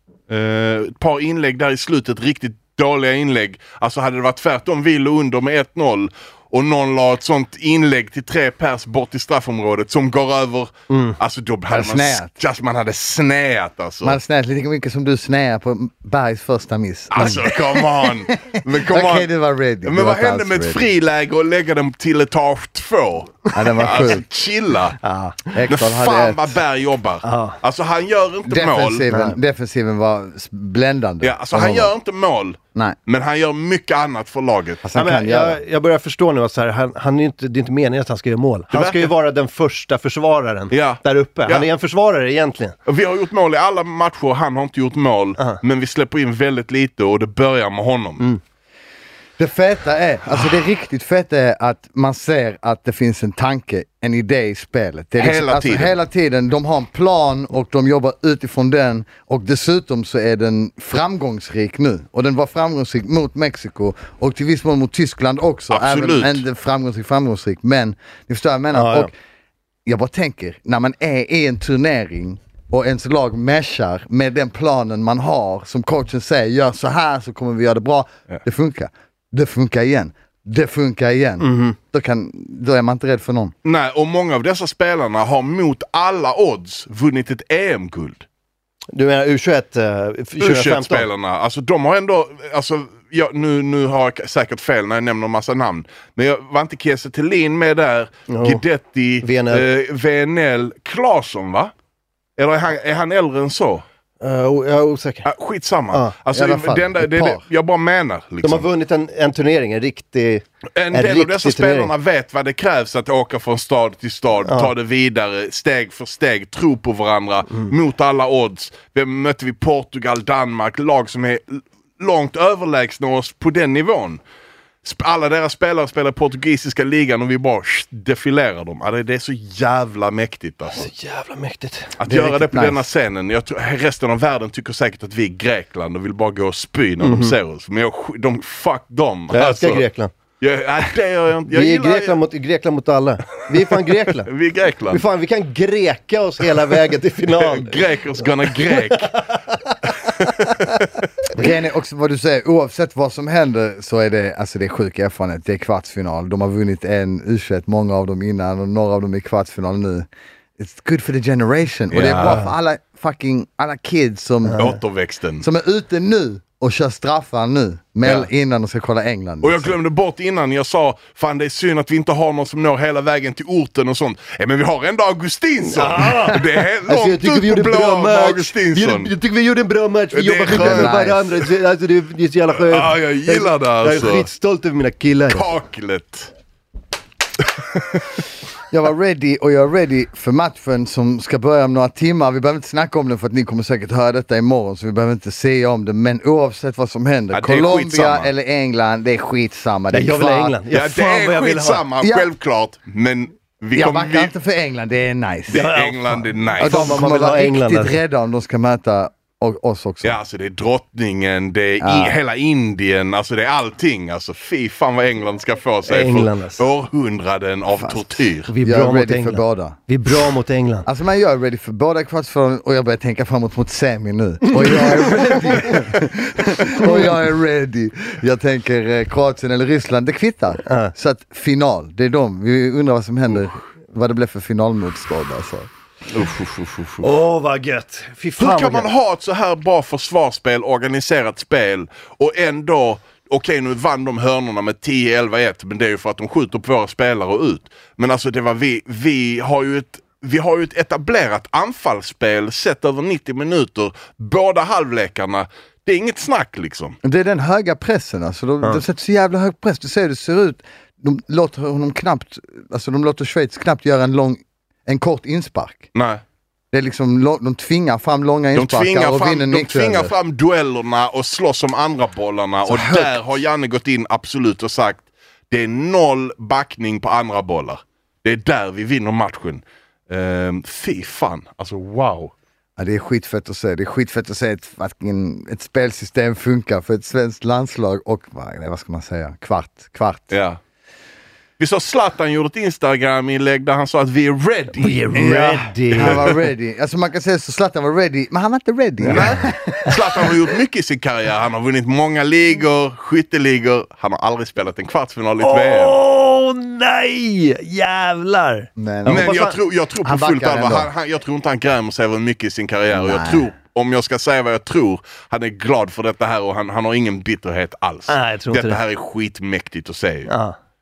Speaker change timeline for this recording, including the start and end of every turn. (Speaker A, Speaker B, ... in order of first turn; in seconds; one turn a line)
Speaker A: 0.3-14.2
Speaker B: 10.9-11.2
Speaker C: 11.7-12.3
Speaker C: 14.0-20.9
Speaker A: 17.1-19.3
Speaker A: 19.8-25.0
Speaker C: 23.5-24.2
Speaker B: 25.0-25.4
Speaker C: 25.5-26.6
Speaker A: 25.7-29.1
Speaker B: 27.2-27.6
Speaker C: 28.5-31.9
Speaker A: 31.2-34.8
Speaker C: 34.8-35.6
Speaker B: 34.9-42.8
Speaker A: 38.7-39.1
Speaker A: 40.7-41.7
Speaker A: 42.9-48.3
Speaker C: 49.4-69.1
Speaker A: 55.2-56.0
Speaker A: 65.7-66.4
Speaker B: 68.7-69.1
Speaker C: 69.8-83.5
Speaker B: 81.4-81.8
Speaker A: 83.6-88.2
Speaker B: 88.9-91.1
Speaker A: 90.4-101.7
Speaker B: 98.3-98.6
Speaker B: 99.2-99.7
Speaker A: 102.4-103.8
Speaker B: 104.2-105.3
Speaker A: 105.2-108.7
Speaker C: 106.3-107.4
Speaker B: 108.4-111.9
Speaker A: 110.8-124.2
Speaker B: 114.4-114.7
Speaker A: 124.8-130.9
Speaker B: 130.8-131.9
Speaker A: 132.0-139.8
Speaker C: 132.1-132.8
Speaker B: 137.0-137.3
Speaker B: 139.3-140.1
Speaker A: 140.4-142.2
Speaker B: 141.5-144.3
Speaker A: 144.2-145.0
Speaker B: 144.9-147.8
Speaker A: 147.3-149.2
Speaker B: 148.4-149.0
Speaker A: 150.0-150.9
Speaker C: 151.3-160.1
Speaker C: 160.6-164.6
Speaker A: 161.9-162.5
Speaker B: 164.4-164.8
Speaker A: 164.6-165.4
Speaker C: 165.4-169.7
Speaker A: 168.0-168.3
Speaker A: 169.4-179.1
Speaker B: 175.6-185.5
Speaker A: 180.1-181.0
Speaker C: 180.5-181.4
Speaker A: 182.5-184.3
Speaker A: 185.3-186.3
Speaker A: 187.7-188.2
Speaker C: 188.7-200.6
Speaker A: 197.3-198.3
Speaker B: 199.9-201.8
Speaker A: 200.7-204.3
Speaker C: 202.0-202.3
Speaker C: 203.7-205.7
Speaker A: 205.5-207.0
Speaker B: 205.5-208.0
Speaker C: 206.6-210.2
Speaker A: 210.0-218.5
Speaker C: 211.8-212.1
Speaker B: 215.8-216.6
Speaker C: 217.8-219.8
Speaker B: 218.5-220.9
Speaker C: 220.8-235.7
Speaker B: 224.6-225.8
Speaker B: 226.8-227.1
Speaker B: 230.6-230.9
Speaker A: 236.1-237.1
Speaker B: 237.0-238.9
Speaker A: 238.4-257.0
Speaker C: 257.0-265.9
Speaker A: 265.9-266.2
Speaker C: 266.7-270.1
Speaker A: 268.5-282.3
Speaker C: 272.6-273.2
Speaker C: 282.8-290.4
Speaker A: 290.3-290.6
Speaker A: 291.6-295.1
Speaker B: 294.8-296.3
Speaker C: 295.1-299.9
Speaker A: 299.1-306.0
Speaker B: 299.1-299.9
Speaker B: 305.4-309.6
Speaker C: 308.8-309.4
Speaker A: 309.1-320.3
Speaker C: 310.0-310.9
Speaker C: 312.9-313.4
Speaker B: 318.1-318.8
Speaker B: 320.2-320.6